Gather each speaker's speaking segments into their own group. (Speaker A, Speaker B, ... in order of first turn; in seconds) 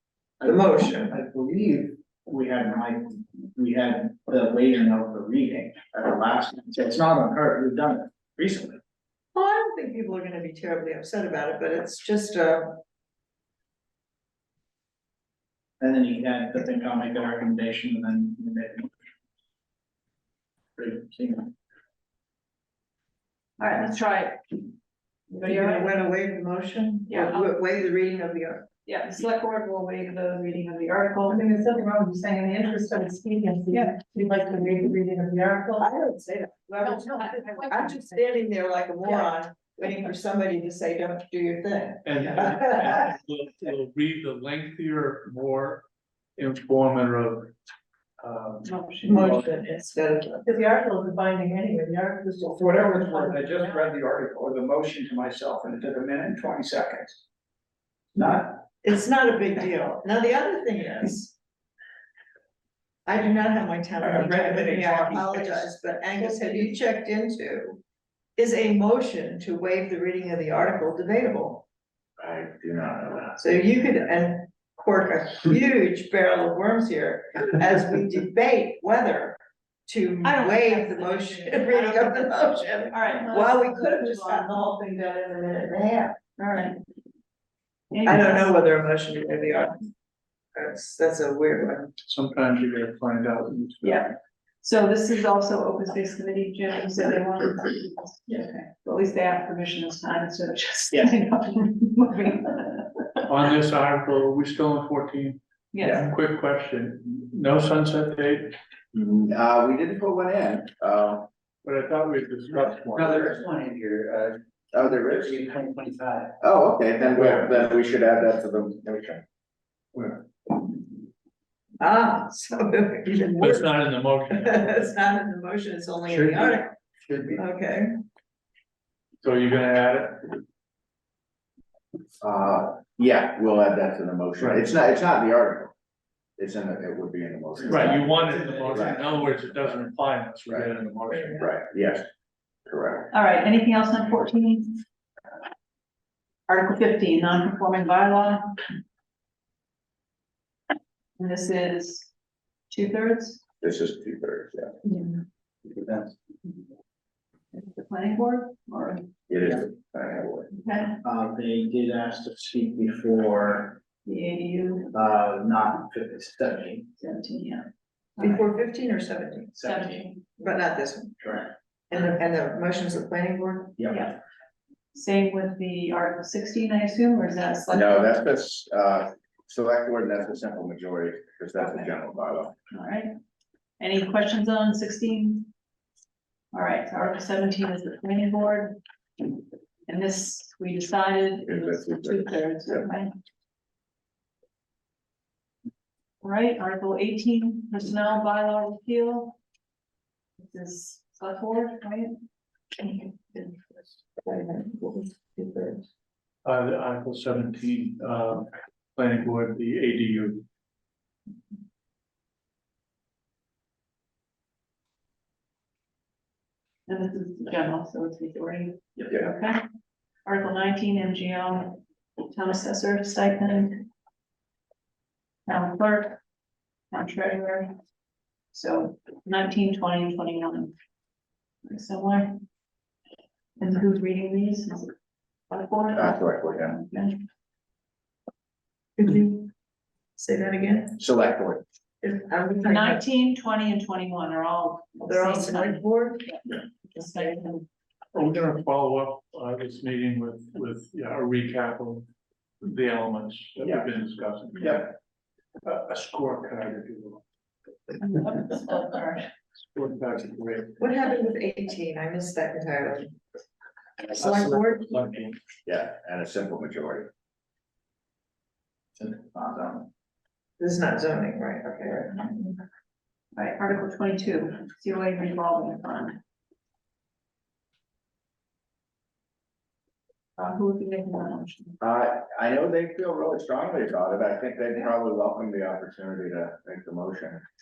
Speaker A: 0.4-8.8, 15.8-19.0, 20.8-21.5, 52.5-57.2, 58.1-58.6, 137.7-138.8, 161.0-163.8, 164.9-166.9, 169.5-170.1, 171.2-171.5, 173.8-174.1, 269.0-269.9
Speaker B: 0.4-1.1, 9.3-12.8, 25.4-28.7, 35.8-43.0, 49.0-50.5, 58.8-61.3, 63.0-67.8, 68.4-71.7, 73.4-86.2, 88.0-89.8, 90.5-91.9, 121.8-123.8, 124.3-126.7, 127.3-127.9, 141.1-141.5, 168.2-169.5, 170.4-171.2, 171.9-173.8, 204.3-205.7, 239.0-239.5, 240.2-241.0, 242.0-243.0, 245.1-247.3, 260.8-263.1, 264.1-265.0, 270.6-272.3
Speaker C: 23.6-24.6, 25.3-25.9, 27.1-27.6, 28.8-31.4, 48.6-49.4, 80.2-84.8, 86.4-86.8, 87.9-88.5, 93.8-103.1, 105.7-106.1, 143.1-144.8, 146.5-148.6, 151.2-152.1, 152.7-153.4, 157.5-159.0, 160.5-161.0, 164.1-164.9, 167.0-168.5, 169.6-170.3, 173.9-174.2, 174.9-178.0, 181.6-181.9, 182.7-183.1, 183.8-185.5, 186.5-193.1, 196.2-199.4, 200.4-202.1, 202.8-203.5, 216.9-219.7, 220.2-223.9, 225.5-226.2, 226.9-227.7, 228.5-230.7, 231.7-232.4, 233.6-234.9, 235.5-237.2, 242.6-247.7, 257.9-259.3, 273.3-276.2, 280.4-281.8
Speaker D: 31.3-35.9, 36.9-38.0, 50.4-53.8, 64.2-65.5
Speaker E: 42.0-45.8, 46.4-47.5, 48.2-49.5, 92.0-94.1, 103.3-108.6, 111.6-113.4, 119.9-120.2, 123.4-124.9, 126.1-127.4, 129.2-130.4, 134.4-134.7, 137.7-141.4, 206.4-210.4, 248.1-252.0, 252.6-255.0, 255.6-257.2, 259.6-260.8
Speaker F: 72.2-73.4, 108.9-111.3, 114.7-115.5, 116.4-119.2, 132.2-135.7, 136.4-139.9, 141.4-142.1, 142.7-143.1, 153.6-154.7, 159.3-160.5, 177.7-182.5, 191.5-192.8, 235.9-236.8, 241.0-241.6, 253.6-253.9, 254.6-254.9, 265.6-267.1, 281.8-287.4
Speaker G: 113.0-114.3, 115.3-116.3